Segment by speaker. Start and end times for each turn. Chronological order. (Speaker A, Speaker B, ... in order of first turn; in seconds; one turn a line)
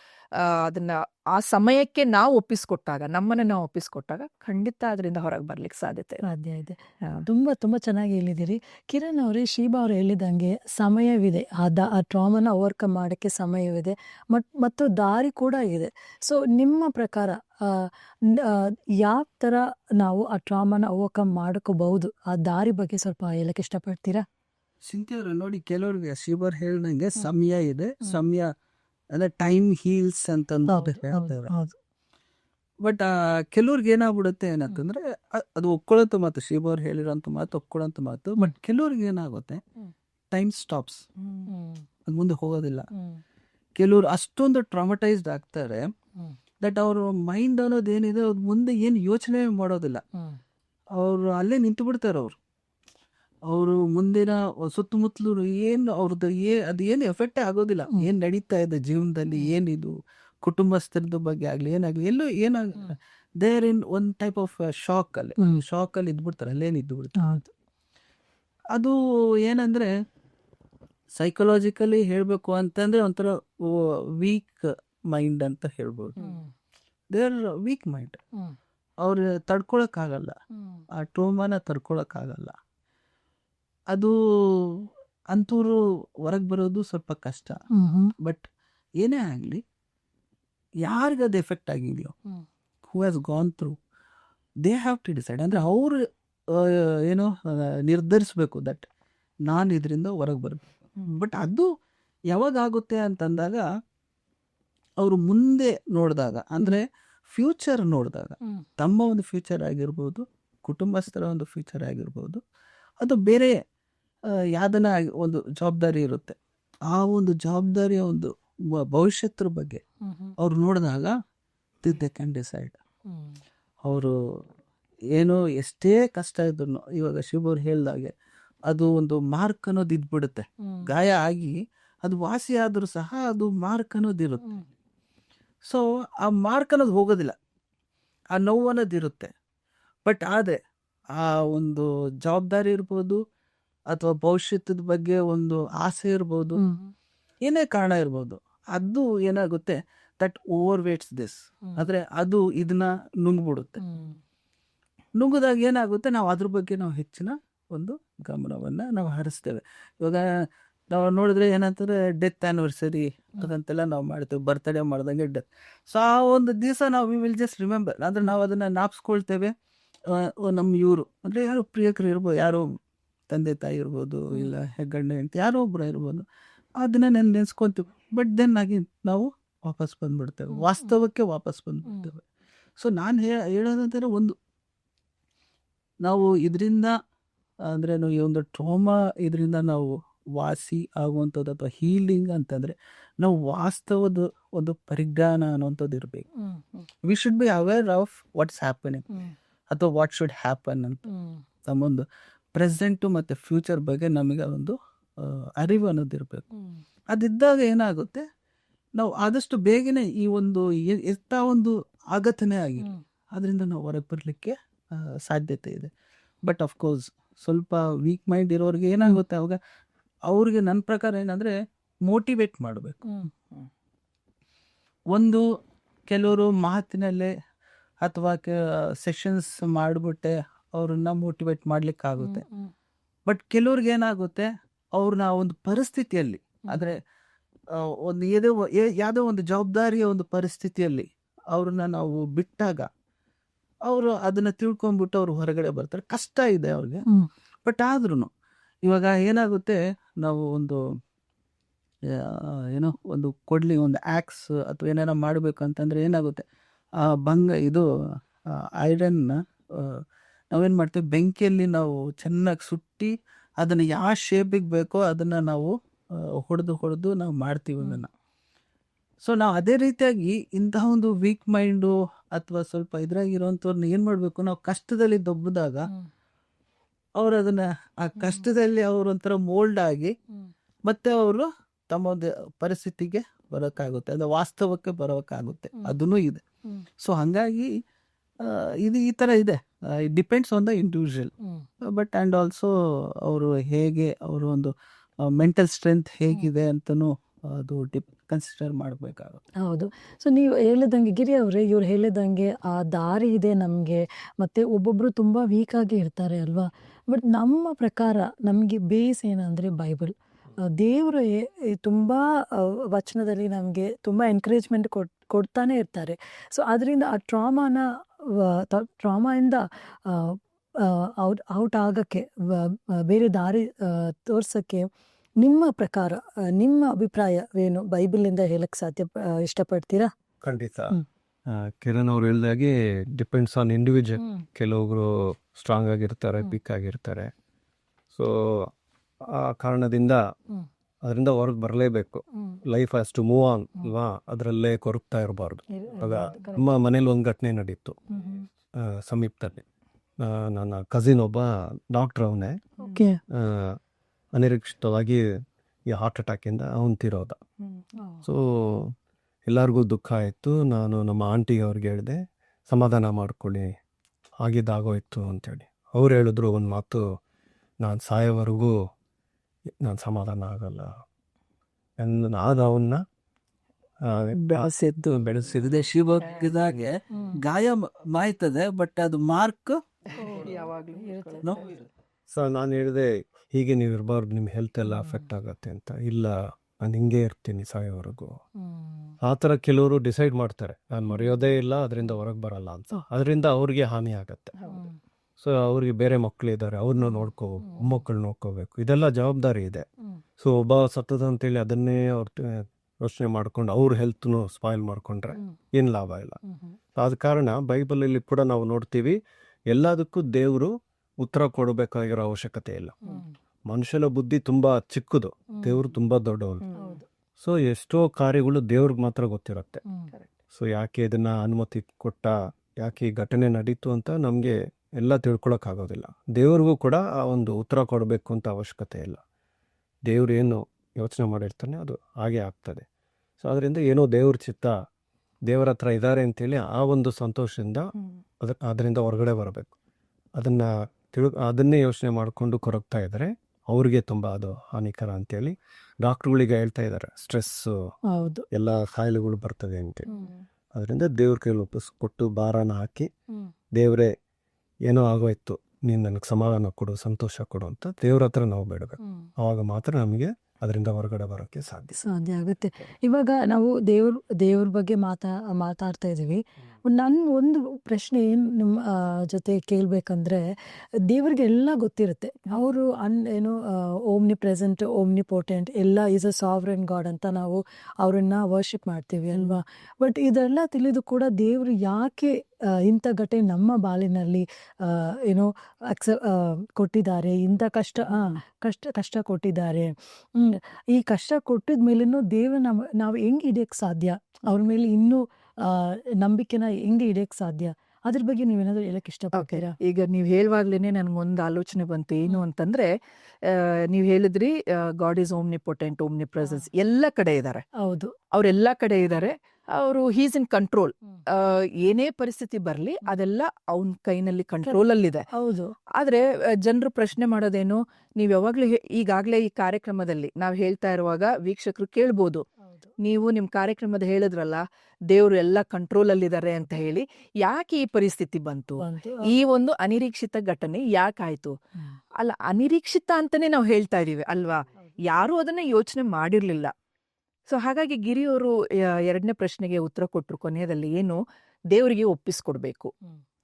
Speaker A: 0.4-6.2
Speaker B: 6.2-24.2
Speaker C: 24.8-28.5
Speaker C: 29.1-31.5
Speaker B: 30.7-31.7
Speaker C: 32.8-39.6
Speaker C: 40.3-41.0
Speaker B: 41.5-41.8
Speaker C: 42.1-42.9
Speaker C: 43.8-45.9
Speaker C: 46.6-50.0
Speaker C: 50.9-52.4
Speaker C: 53.5-67.1
Speaker B: 67.2-67.5
Speaker C: 68.7-69.9
Speaker C: 71.2-76.2
Speaker B: 76.2-76.5
Speaker C: 77.1-78.2
Speaker C: 79.0-80.3
Speaker B: 80.5-80.8
Speaker C: 80.9-82.5
Speaker C: 83.9-87.5
Speaker B: 87.7-88.1
Speaker C: 89.0-89.6
Speaker C: 90.8-92.1
Speaker C: 92.8-93.7
Speaker C: 94.6-96.0
Speaker C: 96.5-98.8
Speaker C: 99.5-101.7
Speaker C: 102.3-103.6
Speaker C: 105.0-112.4
Speaker C: 113.0-113.5
Speaker C: 114.5-116.3
Speaker C: 116.9-119.8
Speaker B: 120.0-120.3
Speaker C: 120.4-121.1
Speaker C: 121.8-122.8
Speaker B: 123.1-123.4
Speaker C: 123.8-124.1
Speaker C: 125.1-128.1
Speaker C: 128.7-134.5
Speaker C: 135.7-137.3
Speaker C: 138.3-139.3
Speaker C: 140.1-140.6
Speaker C: 141.2-143.2
Speaker C: 143.9-146.6
Speaker B: 146.5-146.9
Speaker C: 147.4-153.8
Speaker B: 153.8-154.2
Speaker C: 155.2-160.2
Speaker C: 160.9-169.5
Speaker C: 170.1-172.7
Speaker C: 173.3-176.2
Speaker C: 176.8-182.2
Speaker C: 182.8-184.3
Speaker C: 186.0-186.9
Speaker C: 187.7-196.2
Speaker C: 197.0-199.1
Speaker C: 199.7-201.1
Speaker B: 201.1-201.3
Speaker C: 201.6-206.4
Speaker C: 207.1-208.2
Speaker C: 209.0-215.9
Speaker C: 216.4-219.6
Speaker C: 220.3-221.5
Speaker C: 222.0-223.0
Speaker C: 225.1-225.4
Speaker C: 226.1-227.3
Speaker C: 228.0-232.4
Speaker B: 232.2-232.7
Speaker C: 233.3-237.0
Speaker C: 238.0-242.9
Speaker C: 243.8-247.0
Speaker C: 247.7-248.3
Speaker C: 248.8-250.8
Speaker C: 252.3-256.4
Speaker C: 257.1-257.8
Speaker C: 258.8-260.0
Speaker C: 260.5-265.7
Speaker C: 266.4-268.1
Speaker C: 269.2-275.9
Speaker C: 277.2-280.1
Speaker B: 278.2-278.4
Speaker C: 280.9-286.4
Speaker C: 287.0-287.7
Speaker C: 288.4-291.3
Speaker C: 291.9-292.7
Speaker C: 293.2-294.7
Speaker C: 295.3-299.4
Speaker B: 299.6-310.1
Speaker B: 310.8-324.9
Speaker B: 325.4-330.1
Speaker D: 330.4-331.0
Speaker D: 331.5-337.3
Speaker D: 338.1-338.7
Speaker D: 339.3-340.2
Speaker D: 341.0-348.0
Speaker B: 342.3-342.6
Speaker B: 345.8-346.8
Speaker B: 348.1-348.4
Speaker D: 348.8-349.6
Speaker D: 350.2-352.6
Speaker B: 352.8-353.2
Speaker D: 353.3-353.8
Speaker D: 354.4-355.2
Speaker D: 355.9-357.4
Speaker D: 358.2-358.9
Speaker D: 359.5-363.6
Speaker D: 364.4-367.0
Speaker D: 367.8-368.7
Speaker D: 369.8-370.9
Speaker D: 372.0-373.0
Speaker D: 374.1-374.6
Speaker A: 374.4-375.3
Speaker D: 375.2-375.6
Speaker C: 375.5-379.8
Speaker B: 380.2-381.7
Speaker A: 380.3-381.5
Speaker C: 381.4-381.7
Speaker D: 382.3-388.4
Speaker B: 384.9-385.2
Speaker B: 388.6-389.1
Speaker D: 389.2-394.5
Speaker D: 395.4-399.8
Speaker D: 400.4-406.4
Speaker B: 406.5-406.7
Speaker D: 406.9-409.2
Speaker D: 409.7-412.9
Speaker D: 413.7-416.6
Speaker B: 415.6-415.8
Speaker B: 416.8-417.0
Speaker D: 417.4-419.8
Speaker D: 420.5-429.2
Speaker D: 430.1-432.8
Speaker D: 433.4-434.7
Speaker D: 435.5-437.9
Speaker D: 438.4-439.7
Speaker D: 440.4-447.7
Speaker B: 448.1-448.4
Speaker D: 448.5-450.1
Speaker B: 450.1-450.3
Speaker D: 450.7-453.1
Speaker D: 453.7-454.1
Speaker D: 454.9-462.0
Speaker B: 459.0-459.3
Speaker B: 462.0-470.4
Speaker B: 471.1-482.3
Speaker B: 482.8-499.7
Speaker A: 499.3-502.9
Speaker A: 503.4-507.6
Speaker B: 507.8-508.1
Speaker A: 508.3-515.2
Speaker B: 515.3-515.7
Speaker A: 516.0-522.4
Speaker B: 522.7-522.9
Speaker A: 523.0-531.5
Speaker B: 528.8-529.3
Speaker A: 532.2-536.7
Speaker A: 537.5-541.2
Speaker A: 541.7-542.9